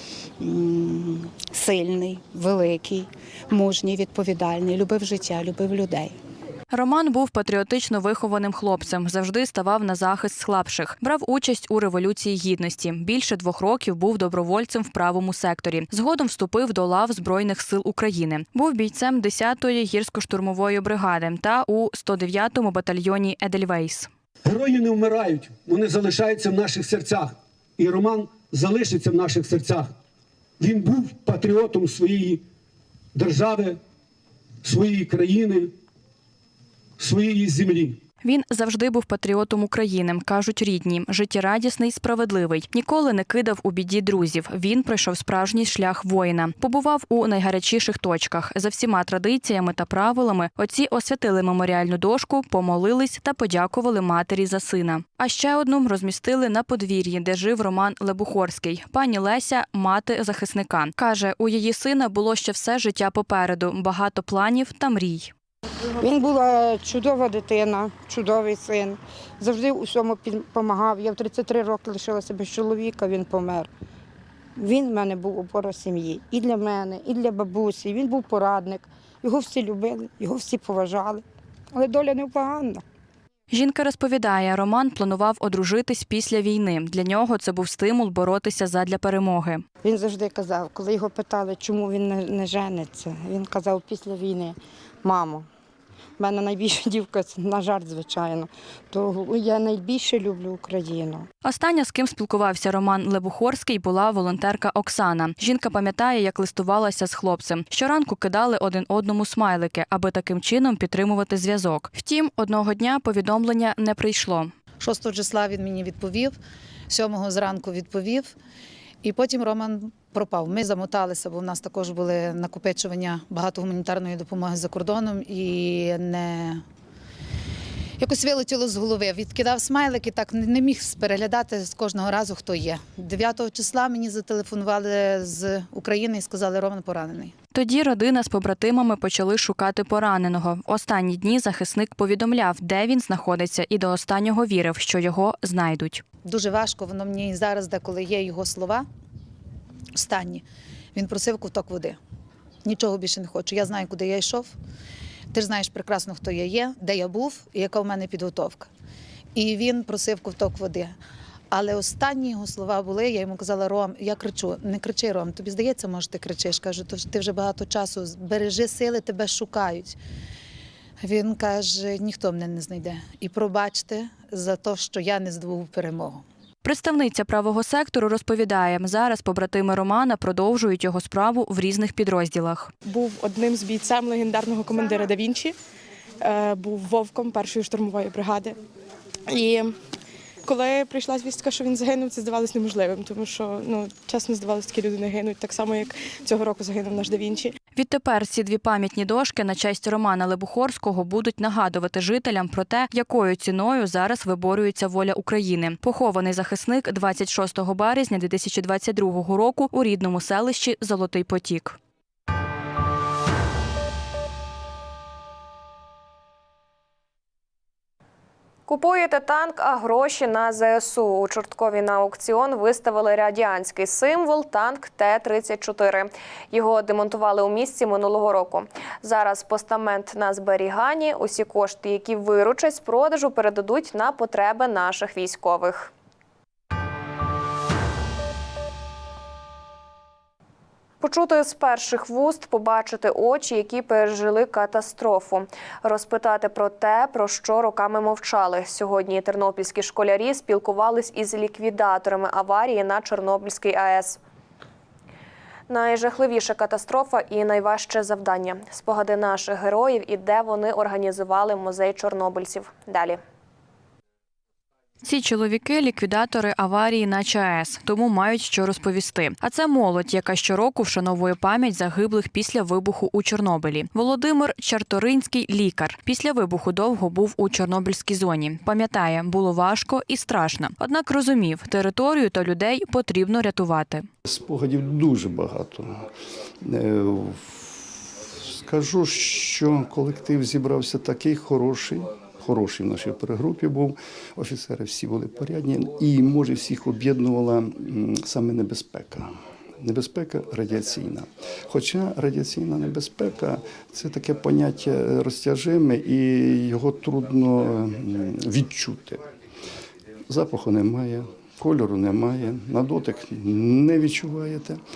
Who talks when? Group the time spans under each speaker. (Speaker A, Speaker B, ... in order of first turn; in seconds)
Speaker A: 0.4-6.1
Speaker B: 6.7-24.1, 38.2-65.3, 83.5-89.6, 101.4-114.5, 137.5-146.0, 176.6-182.7, 197.7-211.8, 265.0-284.1
Speaker C: 24.4-29.9, 30.6-32.4, 33.1-33.8, 34.6-35.7, 37.0-38.0
Speaker D: 66.0-73.7, 74.6-81.2, 81.7-82.8, 89.8-95.5, 96.2-101.2
Speaker E: 114.8-116.4, 116.9-118.3, 119.0-126.6, 128.0-137.3, 146.2-148.8, 149.9-152.0, 152.6-154.5, 155.3-158.7, 159.3-160.9, 161.5-169.9, 171.0-176.2
Speaker F: 182.8-185.5, 186.2-188.6, 189.3-189.8, 190.4-197.5
Speaker G: 218.7-235.9, 241.0-254.2, 255.7-263.2
Speaker H: 284.2-286.1, 286.6-309.2, 310.3-314.8